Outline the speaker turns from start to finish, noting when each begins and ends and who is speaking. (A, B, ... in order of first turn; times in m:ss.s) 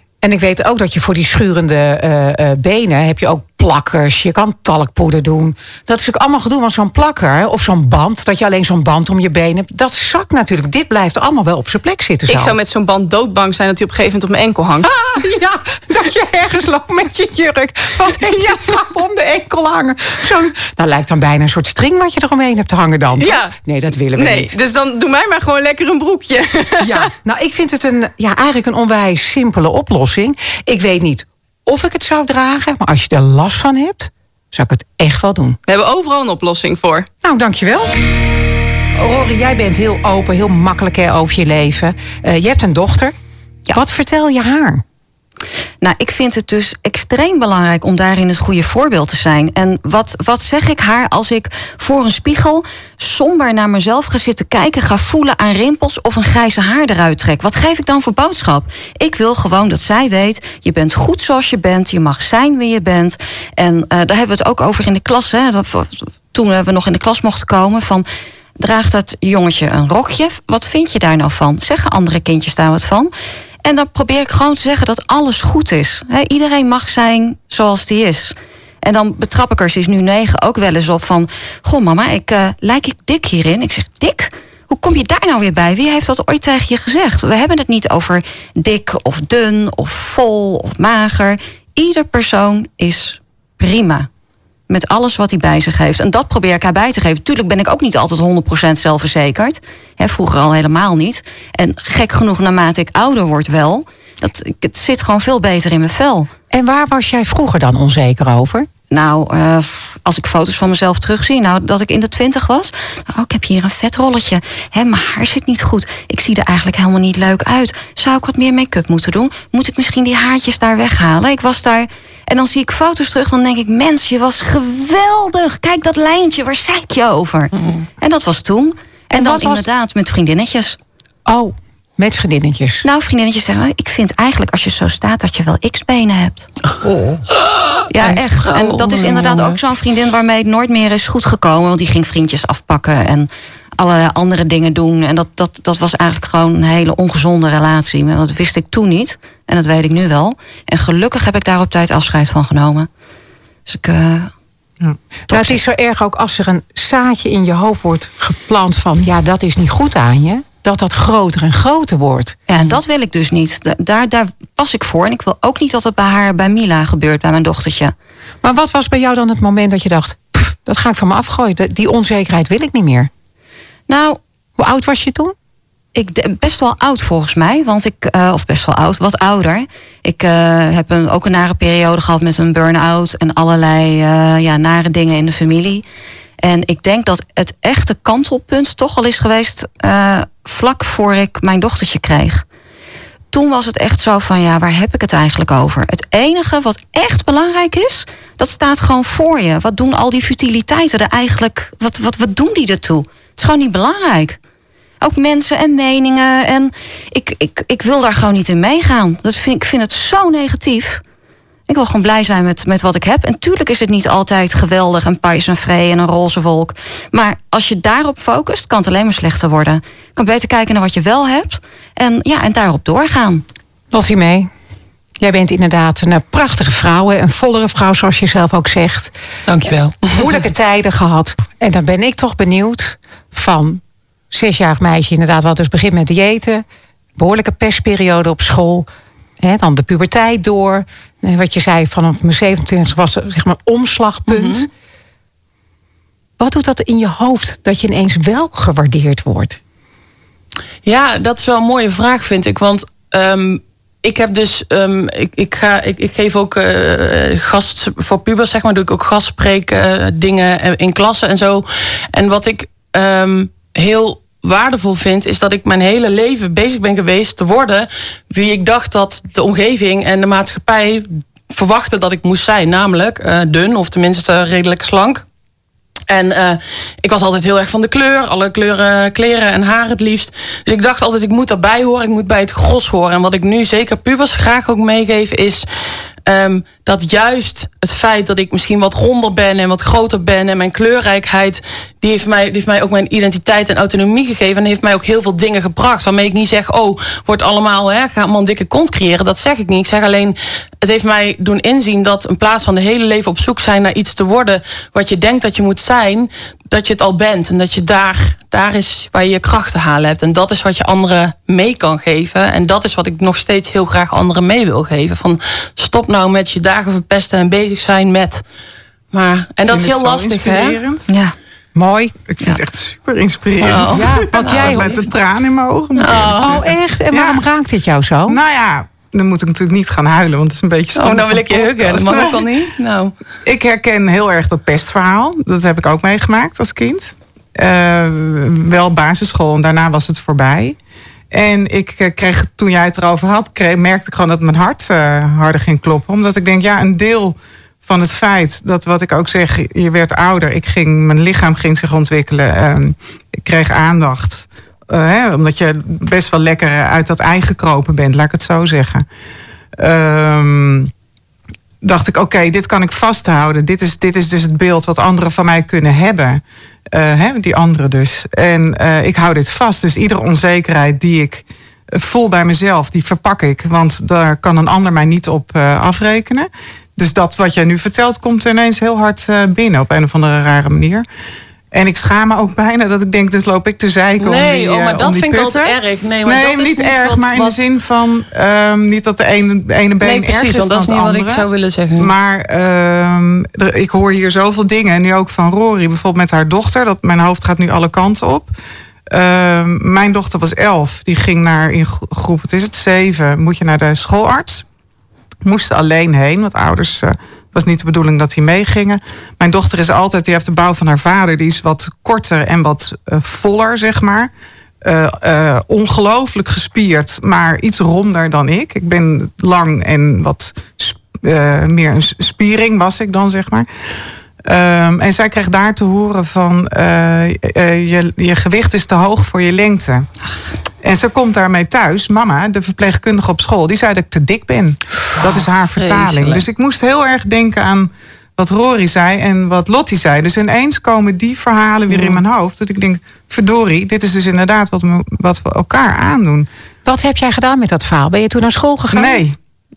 0:00.2-0:12.6 A
0:12.3-0:15.0 B
0:14.8-0:24.6 A
0:18.3-0:18.6 B
0:23.2-0:23.5 B
0:24.2-0:27.1 B
0:26.8-0:35.6 A
0:35.7-0:37.1 B
0:37.2-0:38.0 A
0:39.0-0:43.2 A
0:43.7-0:44.8 A
0:45.8-1:08.0 C
1:08.6-1:13.1 C
1:13.6-1:34.1 C
1:34.7-1:46.3 C
1:46.5-1:48.7 A
1:48.9-2:10.8 C
2:07.6-2:07.8 D
2:09.1-2:09.7 A
2:11.3-2:12.9 A
2:12.8-2:16.5 C
2:16.8-2:17.2 E
2:17.7-2:19.5 D
2:17.9-2:32.9 C
2:33.7-2:34.3 C
2:35.3-2:42.4 A
2:35.3-2:35.6 C
2:42.5-2:47.9 C
2:48.4-2:53.1 A
2:53.9-2:54.2 C
2:54.6-2:55.4 A
2:56.0-3:05.8 C
3:06.4-3:12.4 C
3:13.3-3:24.4 C
3:25.0-3:31.0 C
3:31.7-3:43.4 C
3:43.9-3:44.5 A
3:45.2-3:49.1 A
3:49.5-3:50.4 D
3:50.1-3:56.6 A
3:57.2-3:58.9 A
3:59.4-4:04.7 A
4:04.3-4:04.7 D
4:06.4-4:09.6 A
4:10.8-4:35.2 D
4:36.1-4:45.7 D
4:46.3-5:18.4 D
5:19.1-5:20.8 D
5:19.7-5:21.1 E
5:21.1-5:21.4 C
5:21.8-5:22.2 A
5:22.3-5:27.4 E
5:23.6-5:25.1 D
5:23.9-5:24.9 A
5:26.0-5:26.6 D
5:26.4-5:28.4 A
5:28.3-5:32.5 E
5:31.0-5:33.2 D
5:33.4-5:40.8 E
5:41.3-5:59.0 E
5:59.8-6:00.9 E
6:01.8-6:21.0 E
6:21.7-6:31.5 E
6:24.2-6:27.6 D
6:30.0-6:32.1 D
6:32.0-6:38.5 E
6:39.1-6:44.6 E
6:45.4-6:54.3 E
6:54.8-7:03.7 E
7:04.4-7:10.1 E
7:10.8-7:26.5 E
7:15.2-7:16.5 D
7:26.8-7:29.2 A
7:28.9-7:29.4 E